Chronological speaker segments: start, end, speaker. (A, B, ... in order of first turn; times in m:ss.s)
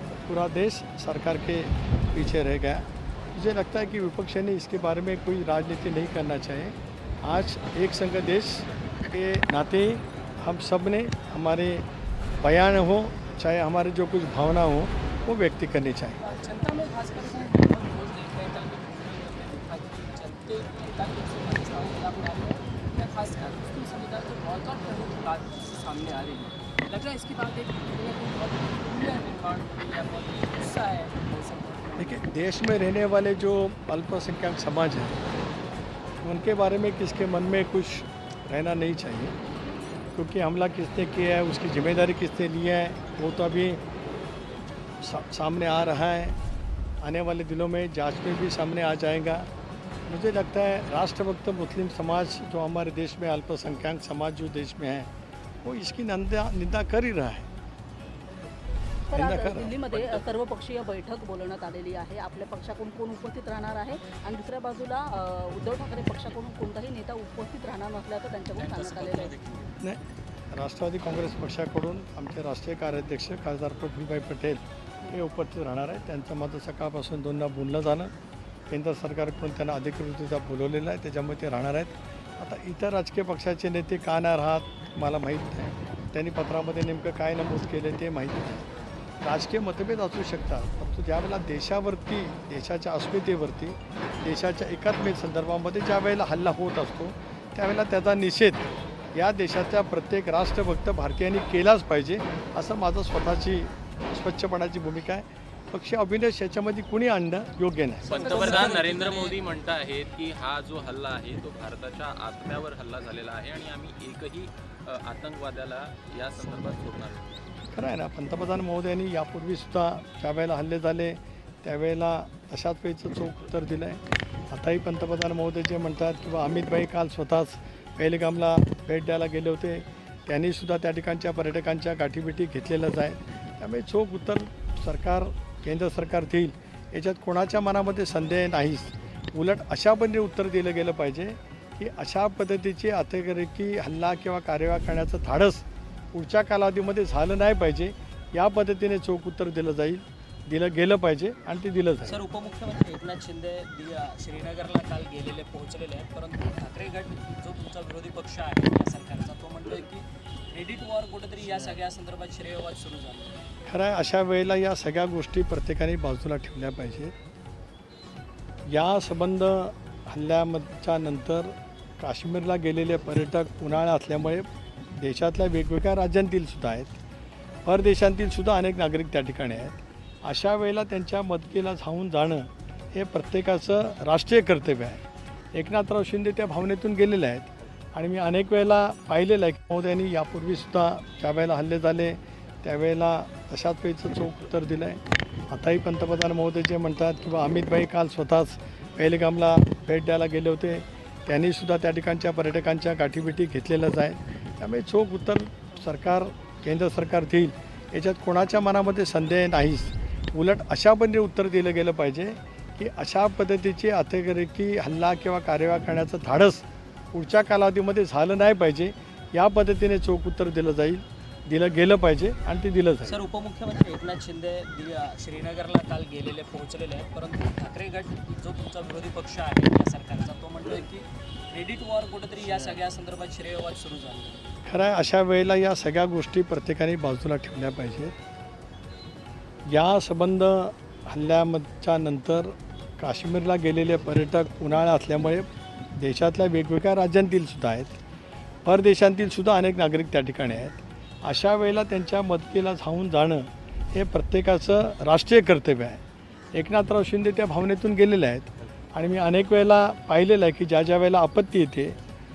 0:00.3-0:11.8 A
0:12.4-0:16.2 A
0:16.2-0:32.2 B
0:32.0-0:35.2 A
0:36.2-0:39.3 A
0:40.1-0:43.8 A
0:45.0-0:46.4 A
0:47.0-0:49.5 A
0:50.1-0:55.1 A
0:55.6-0:57.5 A
0:59.1-1:09.3 C
0:59.1-0:59.8 A
0:59.9-1:00.2 D
1:08.6-1:09.7 D
1:10.5-1:18.1 A
1:18.7-1:28.7 A
1:29.2-1:48.1 A
1:48.0-1:57.2 D
1:48.1-1:49.4 B
1:57.7-2:32.2 A
2:32.0-2:43.4 B
2:41.4-2:41.8 D
2:43.6-2:47.1 A
2:48.7-2:57.0 A
2:57.6-3:05.0 A
3:05.5-3:15.0 A
3:15.5-3:43.2 A
3:43.0-3:54.5 B
3:52.4-3:52.8 D
3:54.6-3:58.1 A
3:59.7-4:08.0 A
4:08.6-4:16.0 A
4:16.5-4:22.0 A